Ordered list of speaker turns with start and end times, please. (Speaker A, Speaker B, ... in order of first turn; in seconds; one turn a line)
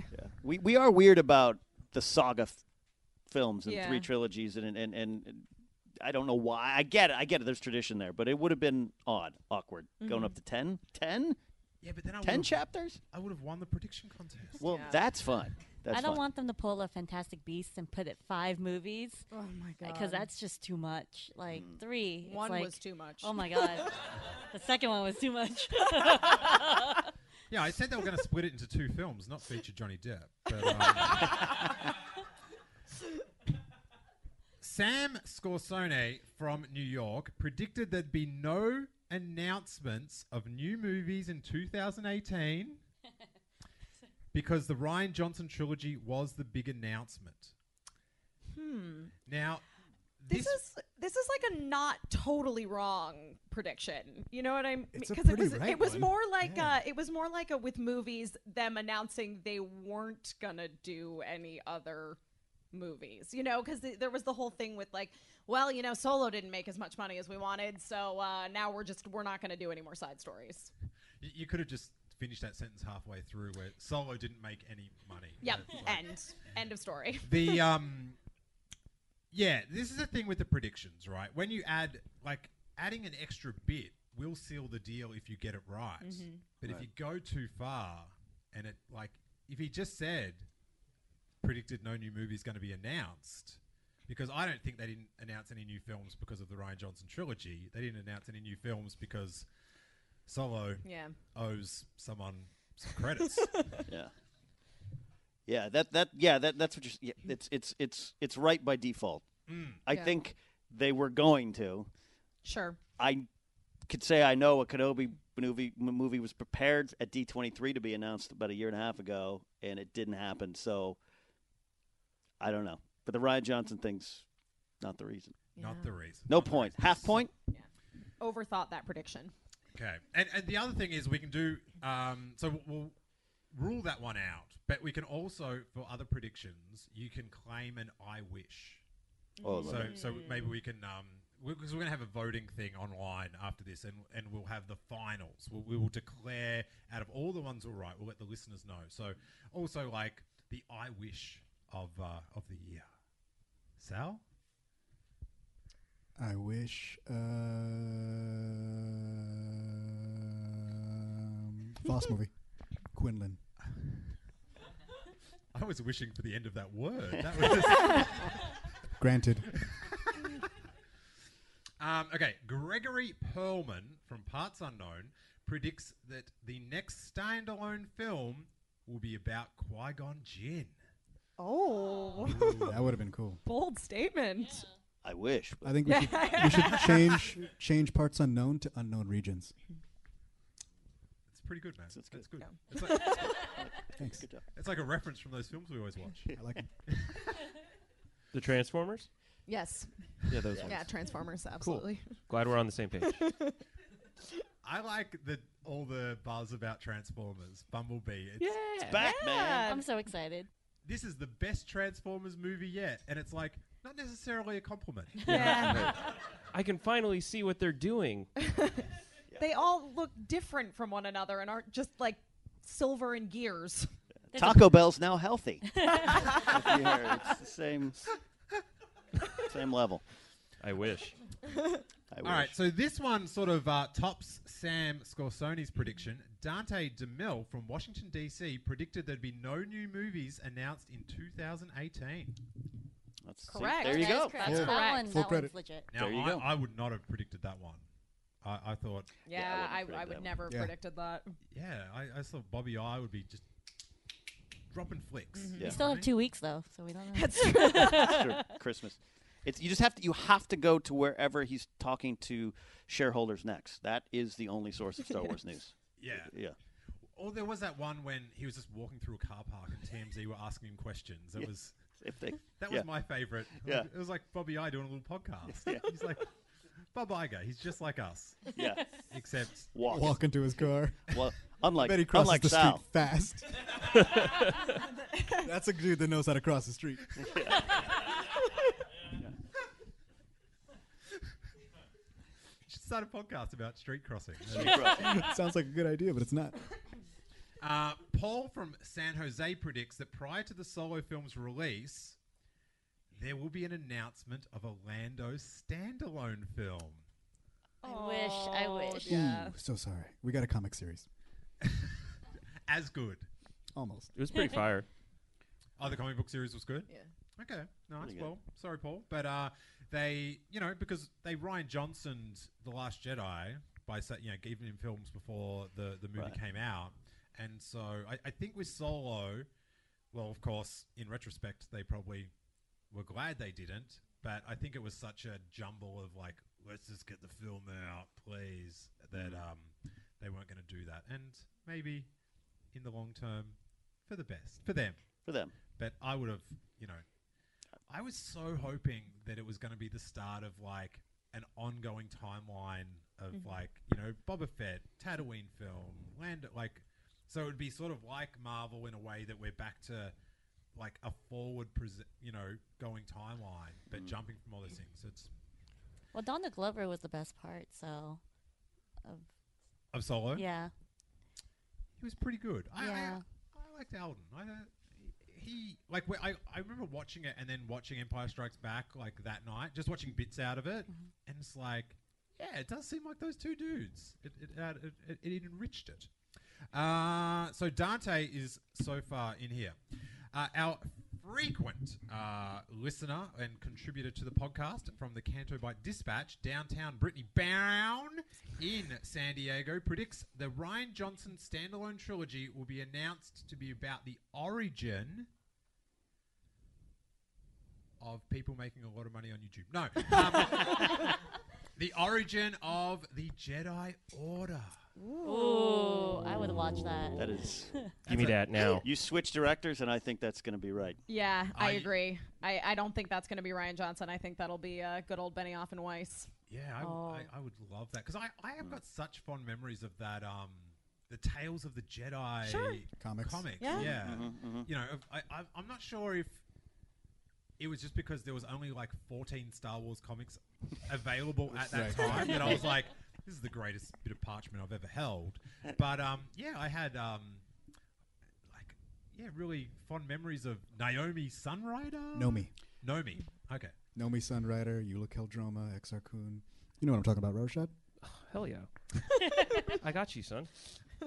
Speaker A: 0.1-2.6
Speaker A: 3.3-5.5
Speaker B: 3.6-4.1
Speaker A: 6.0-11.4
Speaker B: 10.0-10.3
Speaker C: 11.8-14.6
Speaker A: 12.2-13.0
Speaker A: 14.6-16.2
Speaker B: 14.6-15.1
Speaker D: 15.9-19.3
Speaker B: 19.3-20.3
Speaker D: 19.8-27.0
Speaker A: 21.5-21.8
Speaker B: 22.2-23.9
Speaker C: 27.5-31.6
Speaker B: 30.8-31.4
Speaker C: 34.6-42.8
Speaker C: 44.3-47.5
Speaker B: 48.5-49.1
Speaker C: 49.2-49.6
Speaker C: 50.2-50.6
Speaker B: 50.3-62.2
Speaker E: 54.9-56.8
Speaker B: 62.7-70.7
Speaker C: 71.2-76.1
Speaker B: 75.4-77.6
Speaker C: 77.2-78.2
Speaker C: 79.3-90.5
Speaker B: 86.0-86.4
Speaker C: 91.4-99.5
Speaker C: 100.3-103.6
Speaker B: 100.8-101.1
Speaker B: 103.5-103.8
Speaker A: 105.5-109.2
Speaker C: 109.5-109.8
Speaker A: 109.8-111.9
Speaker B: 109.9-110.2
Speaker B: 112.4-112.8
Speaker A: 113.0-113.3
Speaker A: 113.9-121.0
Speaker A: 122.4-124.2
Speaker A: 124.8-125.4
Speaker B: 125.6-125.9
Speaker C: 125.6-127.3
Speaker A: 126.3-127.3
Speaker B: 128.2-129.3
Speaker C: 129.7-132.9
Speaker C: 133.5-138.8
Speaker B: 139.4-140.5
Speaker A: 139.4-140.1
Speaker C: 139.6-152.8
Speaker C: 153.8-154.2
Speaker E: 156.2-162.3
Speaker E: 162.9-163.4
Speaker C: 165.5-168.6
Speaker E: 169.0-169.6
Speaker C: 169.6-170.2
Speaker C: 171.8-180.8
Speaker B: 181.4-182.8
Speaker D: 181.9-182.2
Speaker C: 182.2-182.8
Speaker E: 182.5-183.4
Speaker B: 183.4-184.6
Speaker A: 185.0-186.3
Speaker E: 185.6-189.5
Speaker B: 185.8-187.3
Speaker C: 191.3-193.4
Speaker A: 191.9-192.2
Speaker B: 193.0-193.5
Speaker A: 193.4-194.4
Speaker E: 193.9-194.2
Speaker C: 194.5-196.3
Speaker E: 196.3-196.7
Speaker C: 196.9-197.4
Speaker F: 198.3-199.1
Speaker B: 199.5-199.9
Speaker F: 200.3-200.9
Speaker A: 200.5-200.8
Speaker B: 200.6-202.2
Speaker F: 201.6-203.2
Speaker C: 204.6-208.6
Speaker F: 208.4-209.1
Speaker A: 208.8-209.7
Speaker B: 208.9-209.8
Speaker D: 209.6-210.5
Speaker C: 210.8-215.9
Speaker D: 215.2-215.9
Speaker B: 215.3-215.9
Speaker F: 215.3-215.9
Speaker F: 216.5-218.3
Speaker B: 218.4-218.8
Speaker B: 219.4-223.9
Speaker D: 224.3-224.7
Speaker A: 224.3-228.0
Speaker D: 225.8-226.3
Speaker B: 226.1-226.6
Speaker A: 229.3-230.0
Speaker F: 230.6-231.2
Speaker A: 232.1-232.6
Speaker C: 232.2-242.4
Speaker A: 243.2-244.6
Speaker B: 243.5-245.1
Speaker D: 243.8-245.9
Speaker E: 244.4-245.5
Speaker C: 245.9-247.8
Speaker A: 245.9-246.5
Speaker C: 248.4-249.1
Speaker B: 249.3-251.3
Speaker A: 249.3-250.4
Speaker E: 250.5-250.7
Speaker C: 251.5-253.4
Speaker C: 254.7-256.1
Speaker B: 255.3-255.7
Speaker D: 255.7-258.4
Speaker B: 257.1-258.4
Speaker A: 257.9-266.6
Speaker C: 266.0-266.3
Speaker C: 267.1-271.8
Speaker A: 272.0-272.9
Speaker C: 272.5-276.3
Speaker A: 273.6-273.9
Speaker A: 275.5-275.9
Speaker C: 276.9-278.6
Speaker A: 278.5-279.0
Speaker C: 279.1-279.7
Speaker A: 279.7-282.8
Speaker E: 279.9-281.2
Speaker E: 281.8-283.6
Speaker E: 285.4-287.1
Speaker A: 287.2-287.8
Speaker C: 292.7-295.2
Speaker A: 294.5-295.2
Speaker E: 294.9-296.6
Speaker C: 297.6-302.2
Speaker C: 303.1-307.0
Speaker D: 307.8-309.2
Speaker B: 307.8-309.6
Speaker E: 309.0-311.1
Speaker C: 311.6-311.9
Speaker C: 312.7-313.3
Speaker E: 313.7-314.1
Speaker F: 314.1-314.9
Speaker C: 315.8-329.5
Speaker A: 318.0-318.3
Speaker C: 330.1-332.3
Speaker C: 332.9-342.1
Speaker A: 339.1-339.4
Speaker C: 342.7-345.0
Speaker A: 345.2-345.5
Speaker C: 345.8-347.0
Speaker C: 347.9-360.1
Speaker C: 360.7-365.3
Speaker D: 366.1-368.2
Speaker C: 369.9-370.4
Speaker D: 370.3-370.7
Speaker C: 372.0-386.1
Speaker D: 372.8-373.2
Speaker C: 386.7-389.8
Speaker C: 390.3-405.3
Speaker C: 408.0-411.1
Speaker C: 411.8-414.8
Speaker B: 415.0-416.2
Speaker D: 415.2-417.9
Speaker A: 417.1-421.0
Speaker F: 418.0-418.9
Speaker C: 418.1-418.4
Speaker B: 421.1-426.3
Speaker C: 421.5-421.9
Speaker C: 426.5-436.4
Speaker B: 426.8-427.3
Speaker B: 432.4-432.8
Speaker E: 433.0-433.5
Speaker B: 433.6-433.9
Speaker A: 433.7-434.7
Speaker C: 437.6-447.4
Speaker E: 441.6-442.6
Speaker A: 442.2-442.6
Speaker C: 448.5-453.7
Speaker E: 452.1-452.5
Speaker E: 453.9-457.7
Speaker F: 458.0-458.7
Speaker F: 459.6-460.5